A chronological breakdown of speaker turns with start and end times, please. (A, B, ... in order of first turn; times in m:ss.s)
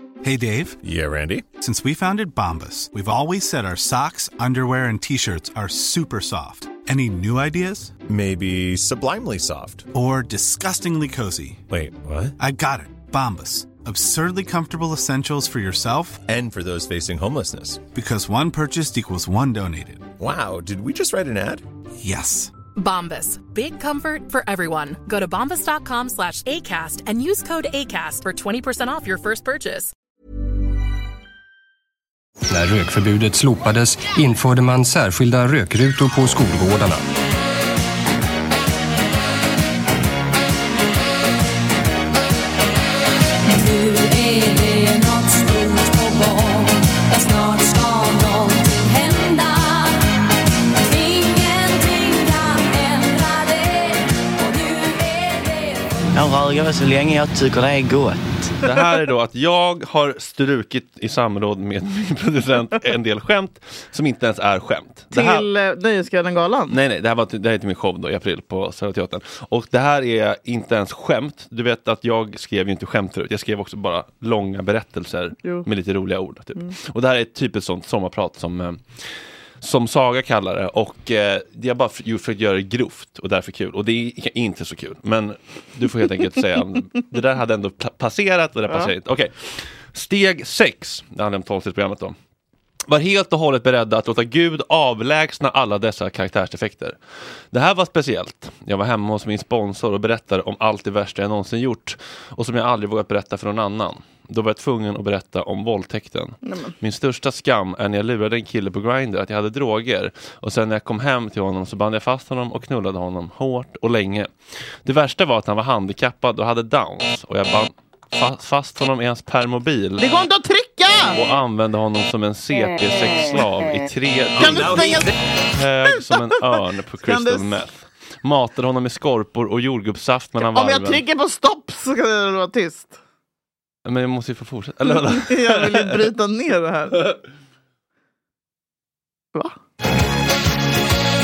0:00.2-0:00.8 A
0:00.8-0:01.5 B
0:01.5-0:08.0 A
0:08.1-0:09.9 B
0:09.9-0:11.6 A
0:11.7-0:12.4 B
0:12.4-0:16.2 A
0:16.3-0:17.9 B
0:17.9-0:20.1 A
0:20.2-0:21.6 B
0:22.0-0:22.5 A
0:22.8-0:29.9 C
0:32.5-0:37.0 D
0:43.5-0:50.0 E
0:50.8-0:55.5 E
0:56.1-0:58.5 F
0:58.6-1:05.5 G
1:05.1-1:06.8 H
1:06.7-1:32.2 G
1:32.9-1:37.0 G
1:37.5-1:54.3 G
1:46.5-1:46.7 H
1:54.8-2:00.0 G
2:00.0-2:01.2 H
2:01.1-2:11.0 G
2:04.4-2:05.2 H
2:07.0-2:07.6 H
2:10.4-2:13.0 H
2:13.8-2:16.1 G
2:14.9-2:17.2 H